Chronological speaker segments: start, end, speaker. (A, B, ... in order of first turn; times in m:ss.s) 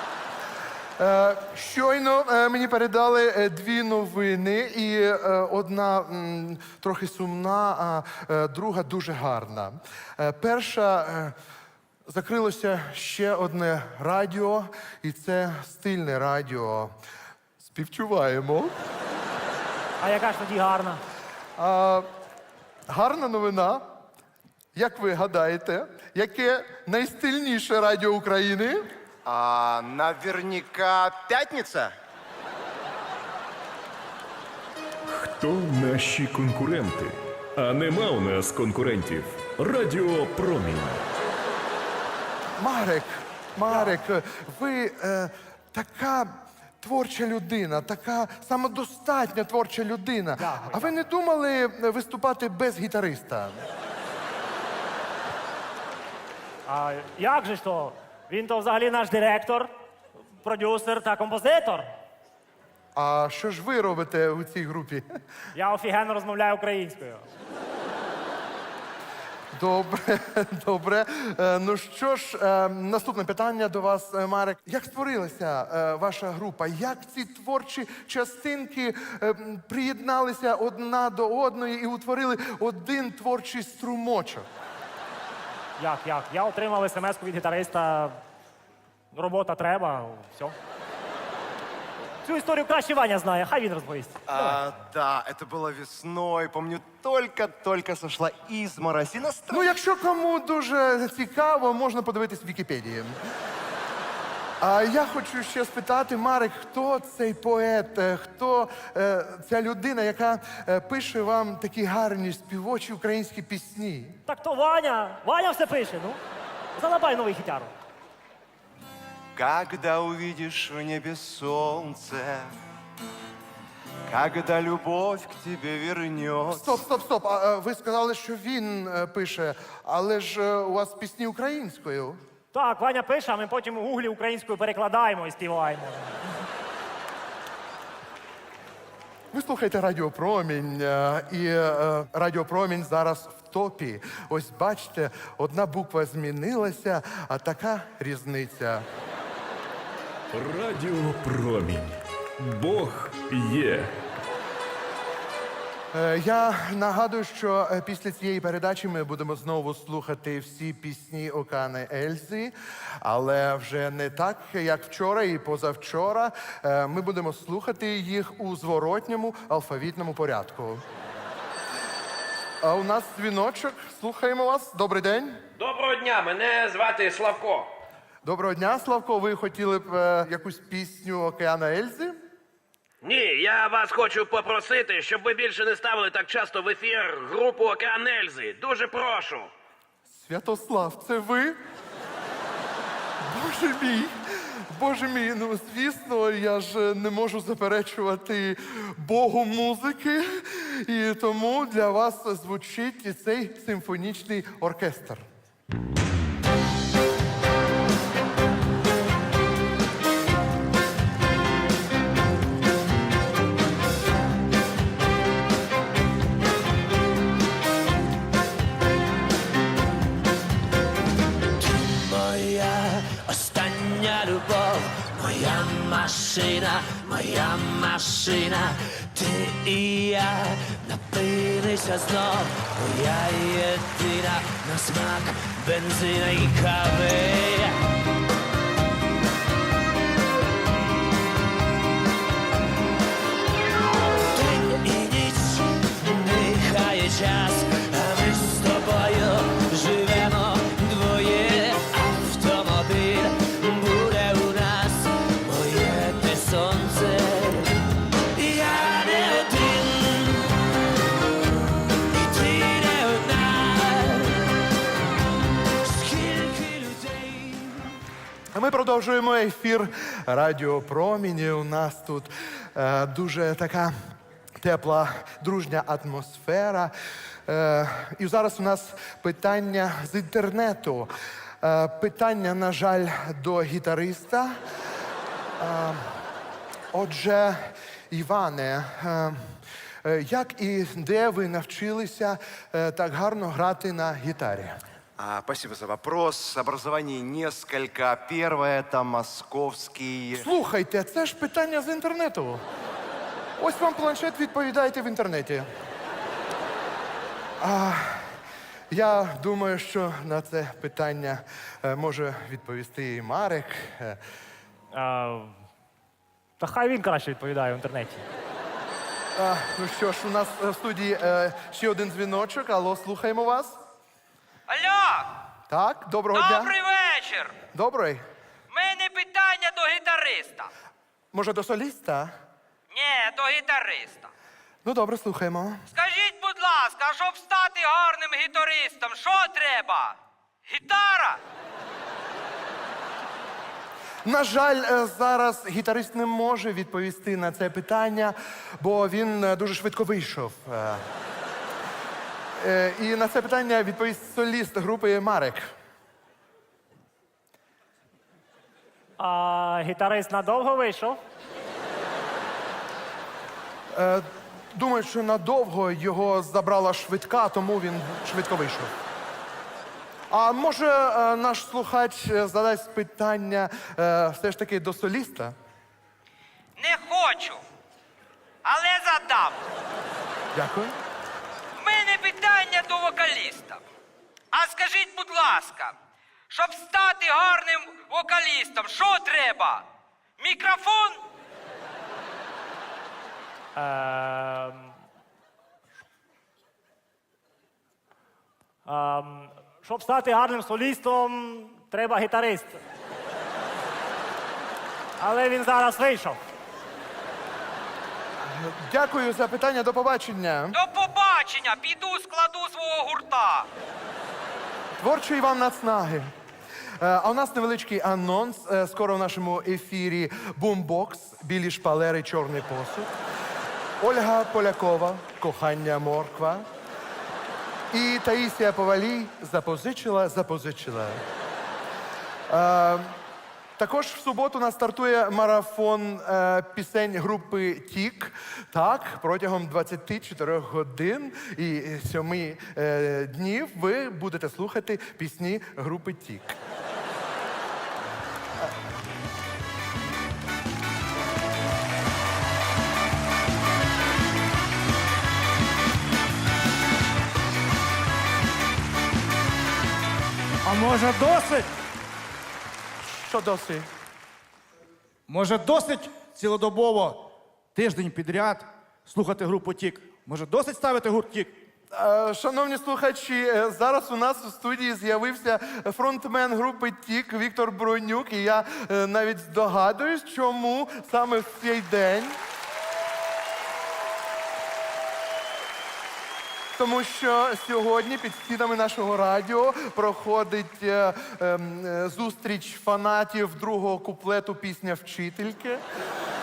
0:01.0-0:11.4 A
0:12.1-0:16.9 A
0:17.6-0:18.7 A
0:20.0-0:21.0 B
0:21.6-0:22.1 A
0:22.9-0:23.8 A
0:24.8-0:28.9 A
0:29.2-0:31.9 C
0:35.1-0:41.0 D
0:42.6-0:53.6 A
0:43.7-0:43.9 B
0:50.4-0:50.9 B
0:56.7-0:59.7 B
1:00.4-1:01.9 B
1:03.0-1:05.0 A
1:05.6-1:07.3 B
1:09.5-1:24.5 A
1:25.8-1:28.2 B
1:29.1-1:30.6 B
1:32.2-1:34.6 B
1:34.3-1:39.7 C
1:39.5-1:43.2 A
1:44.6-1:54.2 A
1:54.3-1:56.2 B
1:56.7-1:57.7 B
1:59.3-2:02.5 C
2:04.1-2:06.8 C
2:06.5-2:12.2 A
2:12.5-2:16.1 B
2:19.3-2:28.8 A
2:30.3-2:33.9 D
2:35.9-2:50.8 A
2:52.6-2:55.4 A
2:55.6-2:57.7 E
2:58.2-3:02.2 A
3:03.0-3:09.5 E
3:10.1-3:11.6 A
3:13.2-3:14.2 A
3:14.7-3:25.2 A
3:41.6-3:57.7 F
4:04.3-4:17.7 F
4:18.4-4:20.4 F
4:22.1-4:24.4 F
4:25.8-4:27.8 F
4:28.5-4:33.9 A
4:34.6-4:36.9 A
4:37.5-4:44.6 A
4:45.6-4:46.1 A
4:46.9-4:49.4 A
4:50.0-4:54.8 A
4:55.2-5:00.5 C
5:00.3-5:02.6 A
5:03.6-5:05.7 A
5:07.6-5:08.3 A
5:08.9-5:14.2 A
5:14.9-5:15.6 B
5:16.6-5:18.2 B
5:19.4-5:23.8 A
5:24.7-5:25.3 G
5:25.7-5:26.7 A
5:26.3-5:27.6 G
5:27.7-5:28.2 A
5:28.7-5:30.7 G
5:31.3-5:32.3 A
5:32.9-5:34.3 G
5:34.8-5:35.8 A
5:35.9-5:40.2 G
5:40.7-5:41.4 G
5:44.2-5:51.0 A
5:52.6-5:55.7 A
5:59.2-6:01.2 B
6:03.9-6:08.9 A
6:10.3-6:15.6 A
6:16.8-6:17.6 G
6:18.6-6:19.6 G
6:20.5-6:21.0 A
6:21.8-6:23.8 G
6:24.5-6:25.9 G
6:26.5-6:29.8 G
6:30.4-6:31.2 G
6:33.7-6:34.9 B
6:38.8-6:42.8 B
6:45.2-6:46.4 B
6:48.5-6:50.8 A
6:50.7-6:53.7 G
6:55.0-6:56.3 A
6:57.0-7:03.1 A
7:04.0-7:06.6 A
7:07.9-7:11.2 A
7:12.5-7:13.2 A
7:13.8-7:26.6 A
7:40.6-7:41.7 H
7:43.0-7:43.9 A
7:45.3-7:51.5 H
7:51.9-8:02.4 A
8:06.8-8:15.8 A